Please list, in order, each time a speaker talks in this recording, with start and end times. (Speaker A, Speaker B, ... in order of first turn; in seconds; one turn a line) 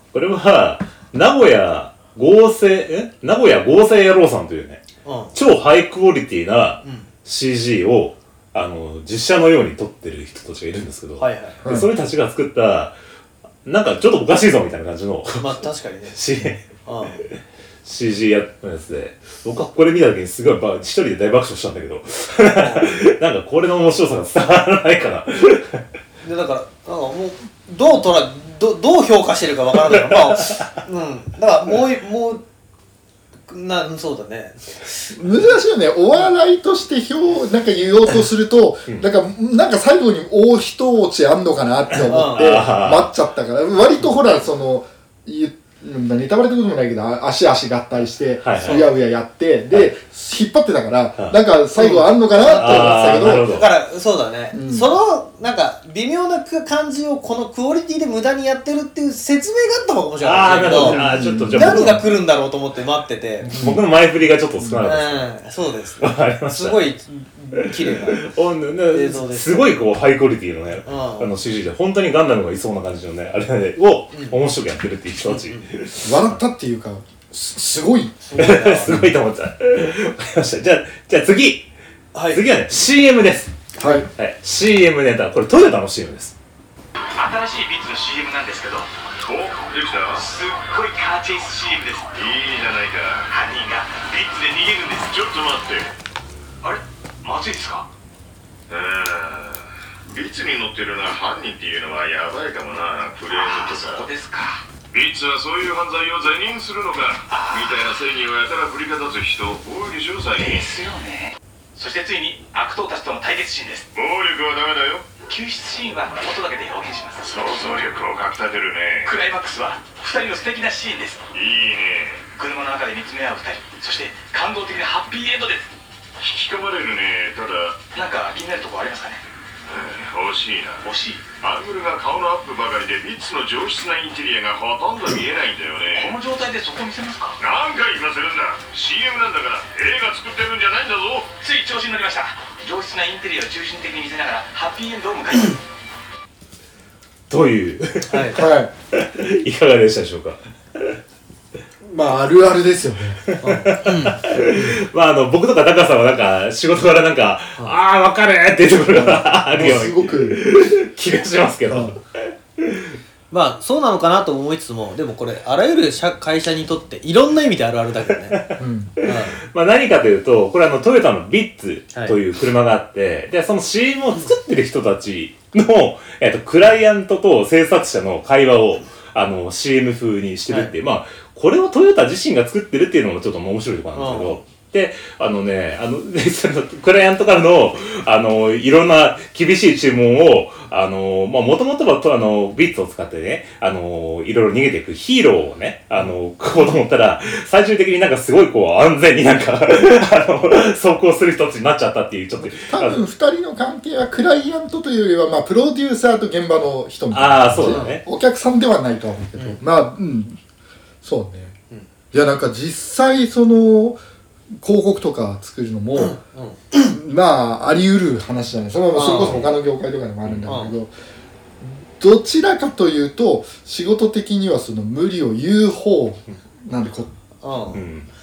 Speaker A: 0.1-4.8
Speaker B: 5.0-5.3
Speaker A: 5.3-12.9
Speaker B: 11.2-11.6
Speaker C: 11.6-11.9
Speaker A: 13.6-16.6
Speaker B: 15.4-17.2
Speaker A: 17.8-25.8
Speaker B: 22.5-23.0
Speaker B: 26.2-32.4
Speaker A: 30.1-30.7
Speaker B: 33.5-35.6
Speaker C: 35.1-53.5
Speaker A: 42.0-43.1
Speaker B: 42.1-42.6
Speaker A: 48.4-48.9
Speaker B: 51.8-63.5
Speaker A: 52.4-53.7
Speaker C: 54.5-54.9
Speaker A: 60.2-62.0
Speaker C: 60.8-62.0
Speaker A: 63.4-65.3
Speaker C: 63.5-63.8
Speaker C: 64.6-64.9
Speaker B: 64.8-68.3
Speaker A: 66.0-66.8
Speaker A: 67.6-76.3
Speaker B: 68.9-69.7
Speaker B: 70.8-71.3
Speaker B: 74.1-74.4
Speaker B: 75.2-75.7
Speaker C: 76.0-78.2
Speaker B: 78.2-78.9
Speaker A: 78.3-81.7
Speaker C: 78.8-79.1
Speaker B: 82.1-82.4
Speaker A: 82.3-83.6
Speaker B: 83.8-84.0
Speaker C: 83.8-84.1
Speaker A: 84.2-86.3
Speaker D: 87.2-88.9
Speaker E: 89.2-90.2
Speaker D: 90.1-92.3
Speaker E: 92.1-93.3
Speaker D: 93.3-95.1
Speaker E: 94.9-95.9
Speaker D: 96.6-97.9
Speaker E: 98.7-104.1
Speaker D: 103.2-104.6
Speaker E: 104.9-110.7
Speaker D: 107.3-107.8
Speaker D: 110.3-113.9
Speaker E: 113.9-115.1
Speaker D: 115.3-117.3
Speaker E: 117.2-119.1
Speaker D: 119.0-121.2
Speaker E: 121.3-122.2
Speaker D: 122.3-125.7
Speaker E: 126.2-127.8
Speaker D: 127.9-129.2
Speaker E: 129.7-130.9
Speaker D: 130.8-131.2
Speaker E: 131.4-136.2
Speaker D: 135.9-137.4
Speaker E: 137.4-141.3
Speaker D: 141.4-145.6
Speaker A: 147.3-151.0
Speaker B: 148.1-148.4
Speaker C: 148.3-148.7
Speaker C: 151.8-153.2
Speaker A: 153.2-162.9
Speaker B: 153.4-154.2
Speaker C: 154.3-154.8
Speaker C: 158.9-160.4
Speaker C: 161.7-161.9
Speaker B: 163.3-168.4
Speaker A: 168.3-203.0
Speaker C: 168.6-168.9
Speaker B: 169.0-169.4
Speaker B: 183.9-184.4
Speaker C: 202.4-210.4
Speaker A: 207.1-208.0
Speaker B: 207.7-207.9
Speaker C: 211.0-211.6
Speaker C: 212.1-214.0
Speaker C: 214.5-216.2
Speaker B: 216.0-216.6
Speaker C: 216.7-220.9
Speaker B: 218.9-219.5
Speaker B: 220.5-220.7
Speaker C: 221.6-227.1
Speaker B: 227.4-227.8
Speaker A: 227.7-228.1